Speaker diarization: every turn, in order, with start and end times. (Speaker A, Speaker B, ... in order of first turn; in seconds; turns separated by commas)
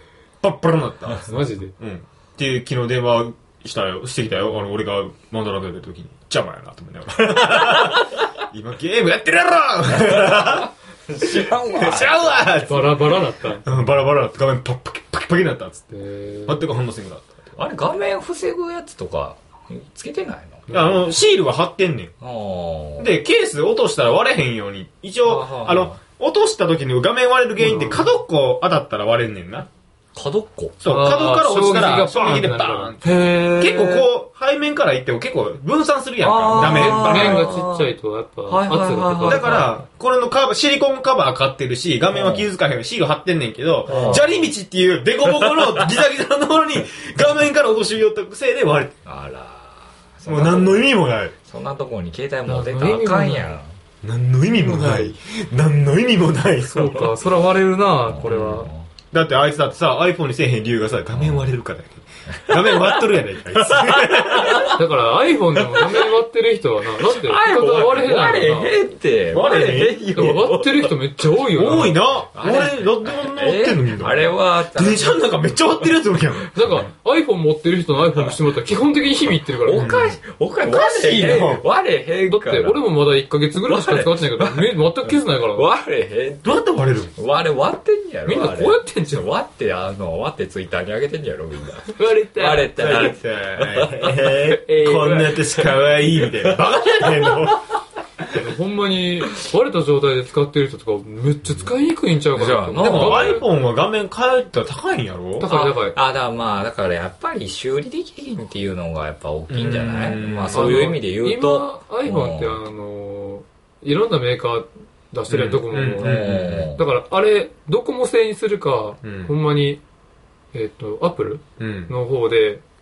Speaker A: 0.4-15.9, Speaker B: 1.2-1.7, Speaker C: 7.5-8.1, Speaker C: 9.9-12.7, Speaker B: 12.6-13.7, Speaker B: 15.9-16.6, Speaker A: 16.4-17.6, Speaker C: 17.6-20.7, Speaker B: 20.7-21.0, Speaker A: 20.7-22.1, Speaker C: 22.2-23.2, Speaker A: 23.0-29.7, Speaker C: 25.2-26.0, Speaker B: 27.6-28.2, Speaker C: 30.1-30.8, Speaker A: 30.8-37.5, Speaker B: 30.8-32.9, Speaker C: 33.0-34.1, Speaker C: 36.2-37.9, Speaker B: 36.5-39.7, Speaker C: 38.5-39.7, Speaker A: 39.2-48.9, Speaker C: 42.1-42.5, Speaker C: 43.9-44.3, Speaker B: 43.9-44.2, Speaker C: 45.2-45.9, Speaker C: 49.0-50.9, Speaker A: 50.2-51.3, Speaker C: 51.4-53.7, Speaker B: 52.5-53.6, Speaker A: 54.0-57.0, Speaker B: 54.6-55.1, Speaker B: 56.7-58.7, Speaker C: 58.1-58.9, Speaker A: 59.1-64.7, Speaker C: 61.1-61.5, Speaker C: 62.3-64.8, Speaker B: 64.7-68.7, Speaker C: 65.7-66.1, Speaker C: 67.0-70.9, Speaker A: 69.3-70.3, Speaker B: 70.1-72.0, Speaker A: 71.5-76.6, Speaker C: 72.3-75.3, Speaker B: 76.5-79.9, Speaker C: 78.0-78.4, Speaker C: 79.5-82.8, Speaker A: 79.7-81.6, Speaker B: 82.3-85.7, Speaker C: 83.7-86.6, Speaker A: 86.4-87.1, Speaker C: 87.2-97.5, Speaker B: 88.2-89.2, Speaker B: 91.9-93.0, Speaker A: 92.7-97.6, Speaker B: 94.7-95.4, Speaker B: 98.3-103.4, Speaker C: 102.3-103.4, Speaker A: 102.8-105.5, Speaker B: 105.4-106.0, Speaker C: 105.5-112.6, Speaker A: 109.5-110.9, Speaker B: 110.5-119.8, Speaker A: 115.3-116.7, Speaker C: 116.0-116.8, Speaker A: 119.0-119.3, Speaker B: 120.5-122.6, Speaker A: 121.6-121.9